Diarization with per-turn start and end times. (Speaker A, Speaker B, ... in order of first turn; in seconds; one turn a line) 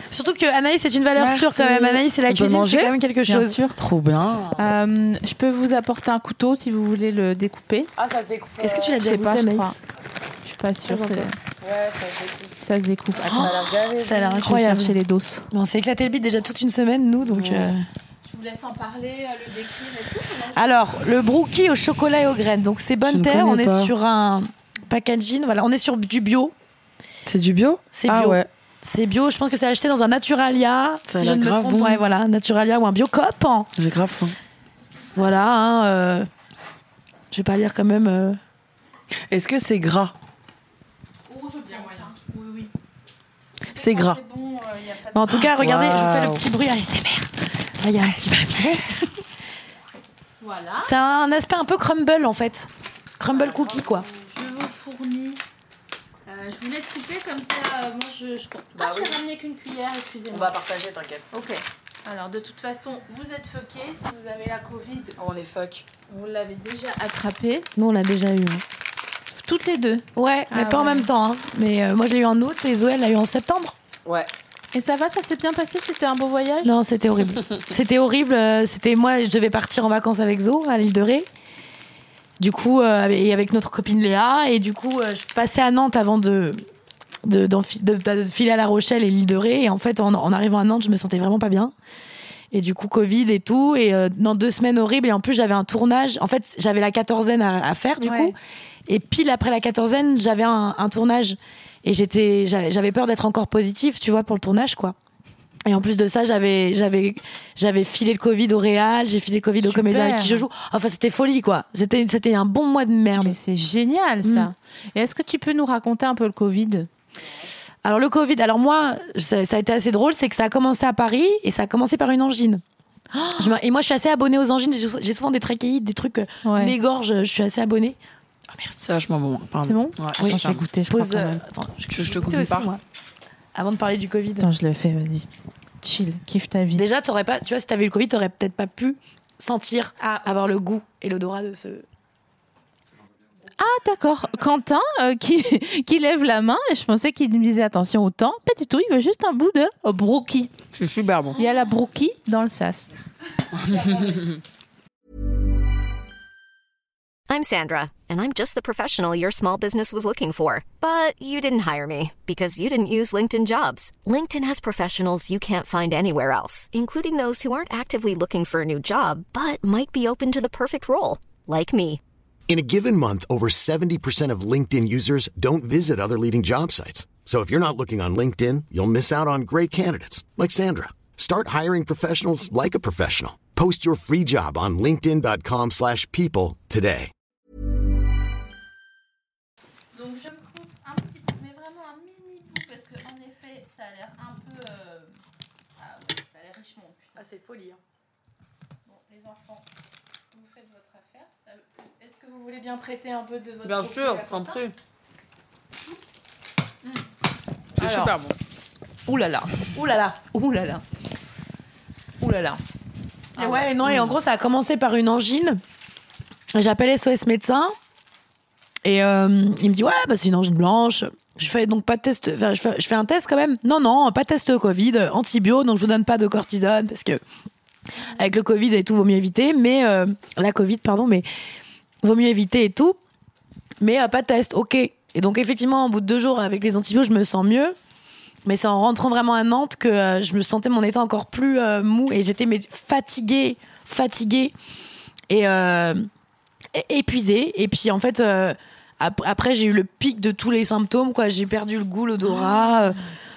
Speaker A: 0.1-3.6
Speaker B: 1.1-2.9
Speaker C: 3.3-3.8
Speaker B: 3.7-4.7
Speaker C: 4.5-7.9
Speaker B: 8.0-9.0
Speaker A: 8.6-9.7
Speaker C: 9.0-9.8
Speaker C: 10.4-11.3
Speaker A: 10.9-11.3
Speaker B: 11.6-12.5
Speaker C: 12.6-15.5
Speaker A: 13.2-14.9
Speaker B: 13.3-14.4
Speaker A: 15.5-17.8
Speaker B: 17.3-17.7
Speaker C: 18.2-20.9
Speaker A: 20.5-26.5
Speaker B: 23.0-23.9
Speaker B: 27.2-28.5
Speaker A: 27.9-33.7
Speaker B: 31.1-32.0
Speaker B: 33.8-34.4
Speaker A: 35.1-36.3
Speaker A: 37.3-38.4
Speaker B: 39.3-40.1
Speaker C: 41.3-42.7
Speaker C: 43.6-45.5
Speaker B: 43.7-44.2
Speaker A: 45.1-49.1
Speaker B: 45.5-46.4
Speaker C: 50.4-50.9
Speaker A: 50.8-54.0
Speaker B: 53.3-53.7
Speaker C: 53.4-55.4
Speaker C: 56.3-60.5
Speaker B: 58.8-59.2
Speaker B: 60.3-61.3
Speaker C: 61.3-65.2
Speaker B: 65.2-65.8
Speaker C: 66.1-67.7
Speaker A: 67.8-68.6
Speaker C: 69.3-71.1
Speaker A: 70.1-73.7
Speaker C: 74.7-76.7
Speaker A: 76.6-81.3
Speaker A: 82.4-86.6
Speaker A: 87.2-91.7
Speaker A: 92.5-98.3
Speaker C: 98.0-98.3
Speaker A: 98.9-104.9
Speaker A: 105.7-113.3
Speaker C: 109.6-110.5
Speaker C: 113.2-116.9
Speaker A: 114.2-114.5
Speaker A: 117.8-122.6
Speaker C: 123.1-123.5
Speaker A: 123.4-128.0
Speaker C: 126.4-126.7
Speaker A: 128.5-128.8
Speaker B: 128.8-132.7
Speaker C: 129.6-131.3
Speaker A: 130.2-132.8
Speaker A: 133.5-134.5
Speaker C: 134.4-135.3
Speaker C: 135.8-136.8
Speaker A: 136.7-141.8
Speaker C: 140.0-140.5
Speaker C: 143.6-150.5
Speaker B: 150.7-151.4
Speaker C: 151.3-152.9
Speaker B: 153.5-154.4
Speaker C: 153.7-154.2
Speaker D: 157.3-172.0
Speaker E: 172.5-187.1
Speaker C: 189.9-195.2
Speaker C: 195.8-197.3
Speaker A: 197.2-197.8
Speaker C: 198.8-199.6
Speaker C: 200.3-204.6
Speaker B: 203.6-204.7
Speaker B: 207.8-208.3
Speaker C: 207.8-208.2
Speaker C: 209.1-210.8
Speaker A: 209.7-210.2
Speaker C: 212.2-212.6
Speaker A: 213.4-215.6
Speaker C: 213.4-213.9
Speaker A: 216.5-217.7
Speaker A: 218.8-227.2
Speaker A: 228.0-231.2
Speaker A: 232.0-233.0
Speaker A: 233.8-237.7
Speaker A: 238.4-244.5
Speaker A: 245.3-246.1
Speaker A: 246.7-253.0
Speaker C: 252.3-252.8